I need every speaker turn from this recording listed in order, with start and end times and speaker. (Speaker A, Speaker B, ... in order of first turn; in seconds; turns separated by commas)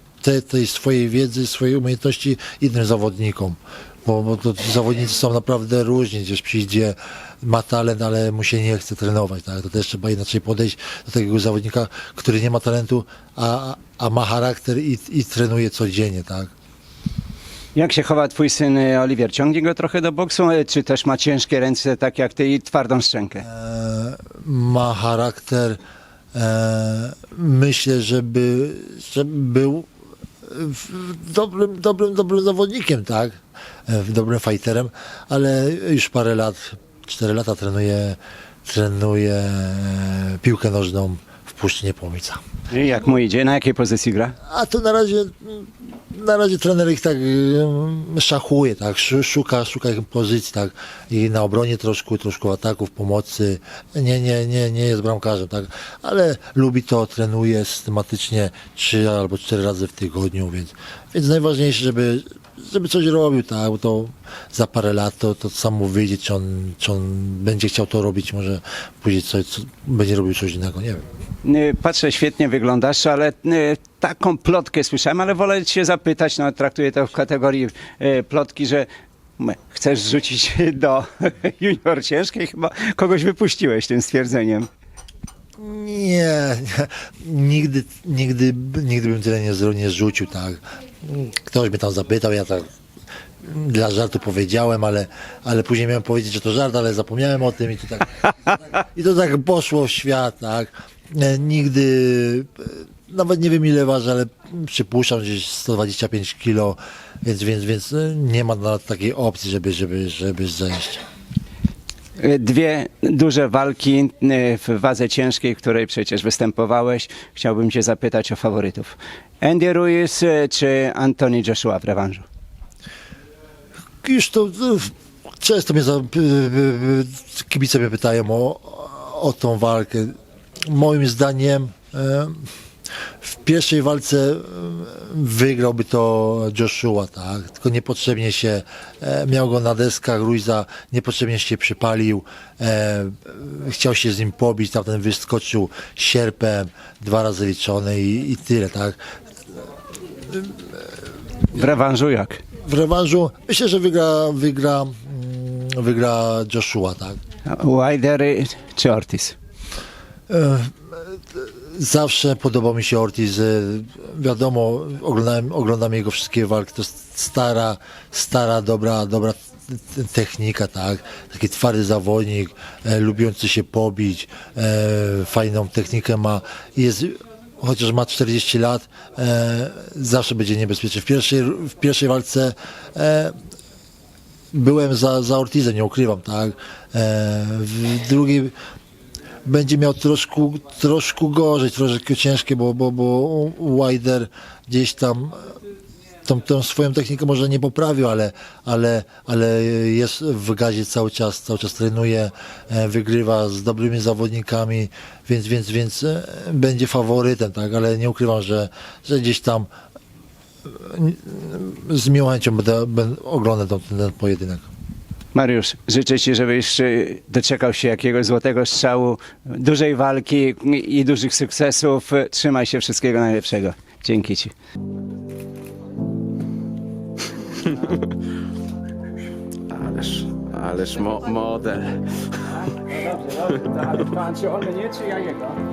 Speaker A: 0.2-16.5, Speaker B: 17.8-23.4, Speaker A: 23.4-25.8, Speaker A: 26.3-29.9, Speaker A: 30.4-42.4, Speaker B: 42.7-44.4, Speaker A: 44.5-71.0, Speaker B: 71.4-84.7, Speaker A: 85.6-92.7, Speaker A: 93.4-111.0, Speaker B: 112.2-122.2, Speaker A: 124.0-130.1, Speaker A: 130.7-132.5, Speaker A: 133.2-149.0, Speaker A: 150.2-150.8, Speaker B: 151.5-152.4, Speaker A: 152.6-157.2, Speaker B: 157.5-159.4, Speaker A: 160.3-183.3, Speaker A: 184.5-188.5, Speaker A: 189.4-195.6, Speaker A: 196.2-209.7, Speaker A: 210.7-214.7, Speaker B: 215.3-224.5, Speaker C: 229.7-232.1, Speaker B: 232.7-235.6